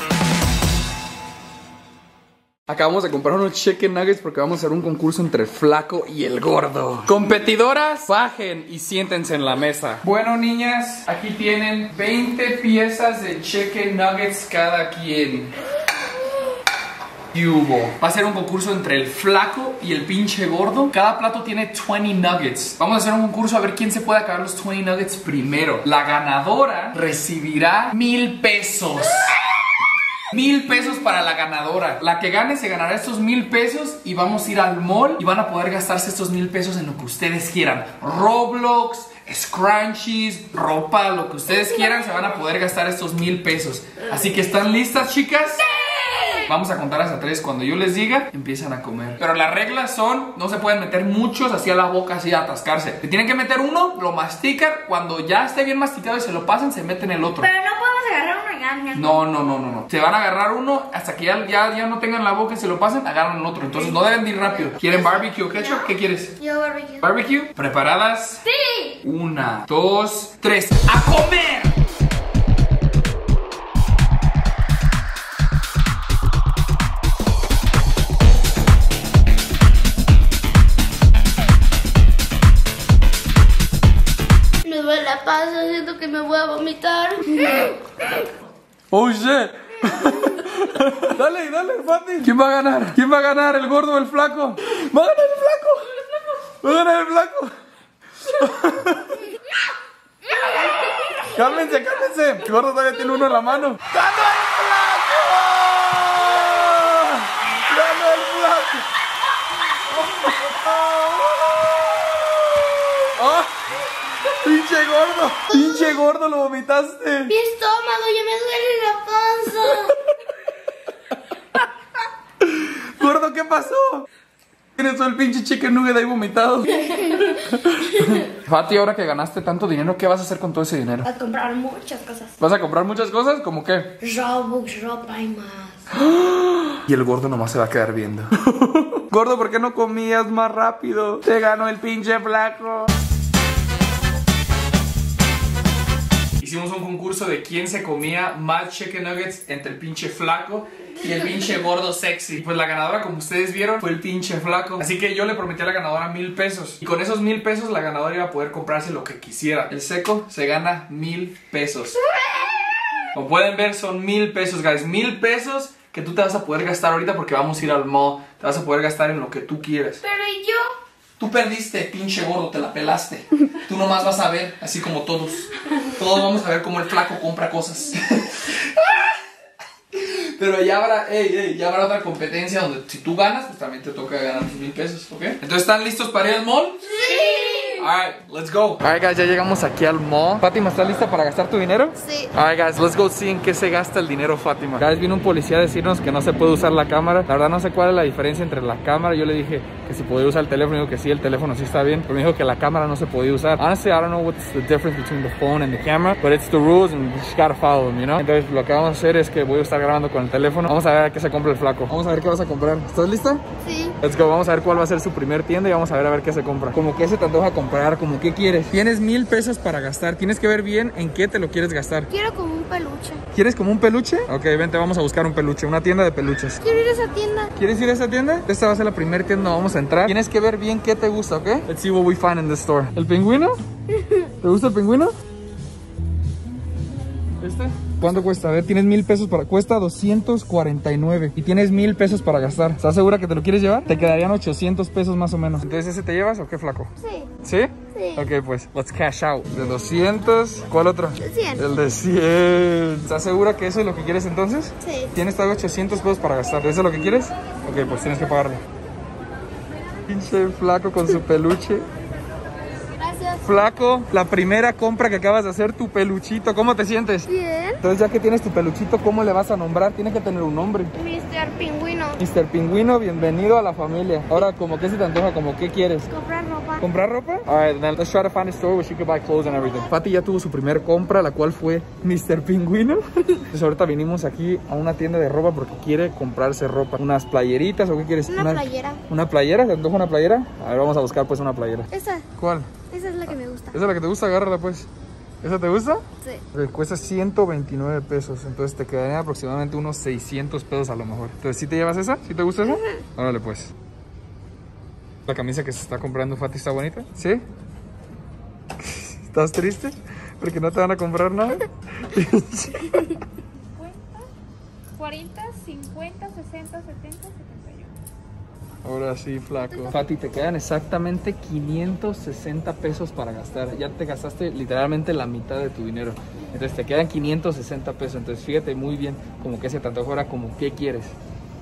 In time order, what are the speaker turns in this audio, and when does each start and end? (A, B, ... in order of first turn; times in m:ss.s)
0:02.7-0:15.5 A
0:17.3-0:29.3 A
0:30.3-0:45.7 A
0:45.8-0:46.3 B
0:46.3-0:57.5 A
0:57.4-0:59.1 B
0:58.9-1:06.4 A
1:03.8-1:07.0 B
1:07.0-1:08.5 A
1:08.5-1:09.0 B
1:09.0-1:11.8 A
1:24.6-1:27.7 B
1:28.9-1:35.9 A
1:36.6-1:37.5 A
1:38.2-1:39.2 A
1:41.2-1:48.8 A
1:50.1-1:51.9 A
1:53.0-1:53.5 A
1:54.2-1:57.3 A
1:55.5-1:56.0 B
1:57.3-2:00.0 B
2:02.5-2:04.1 A
2:04.8-2:11.1 A
2:06.8-2:07.4 B
2:11.0-2:12.3 B
2:12.4-2:14.0 A
2:14.0-2:15.8 B
2:16.0-2:22.9 A
2:26.4-2:42.0 A
2:42.1-2:42.6 B
2:43.1-2:50.0 A
2:50.0-2:50.7 B
2:51.2-2:59.2 A
2:59.9-3:33.4 A
3:06.9-3:07.8 B
3:12.0-3:12.3 B
3:33.6-3:34.0 B
3:34.0-3:42.1 A
3:42.1-3:43.2 B
3:43.3-3:46.6 A
3:46.6-3:47.5 B
3:47.5-3:53.6 A
3:53.9-3:54.3 B
3:54.4-3:55.1 A
3:57.4-4:18.6 A
4:07.0-4:07.3 B
4:07.9-4:08.2 B
4:11.2-4:11.6 B
4:14.8-4:15.1 B
4:20.0-4:21.9 A
4:22.9-4:23.4 B
4:23.4-4:30.9 A
4:27.3-4:27.8 B
4:31.0-4:32.2 B
4:32.2-4:36.1 A
4:36.1-4:36.8 B
4:36.8-4:52.7 A
4:48.3-4:49.0 B
4:51.9-4:52.2 B
4:52.9-4:53.8 B
4:53.3-4:54.9 A
4:55.4-5:03.7 A
5:05.2-5:07.4 A
5:08.8-5:13.2 A
5:13.7-5:14.3 C
5:15.0-5:17.9 C
5:18.8-5:31.1 A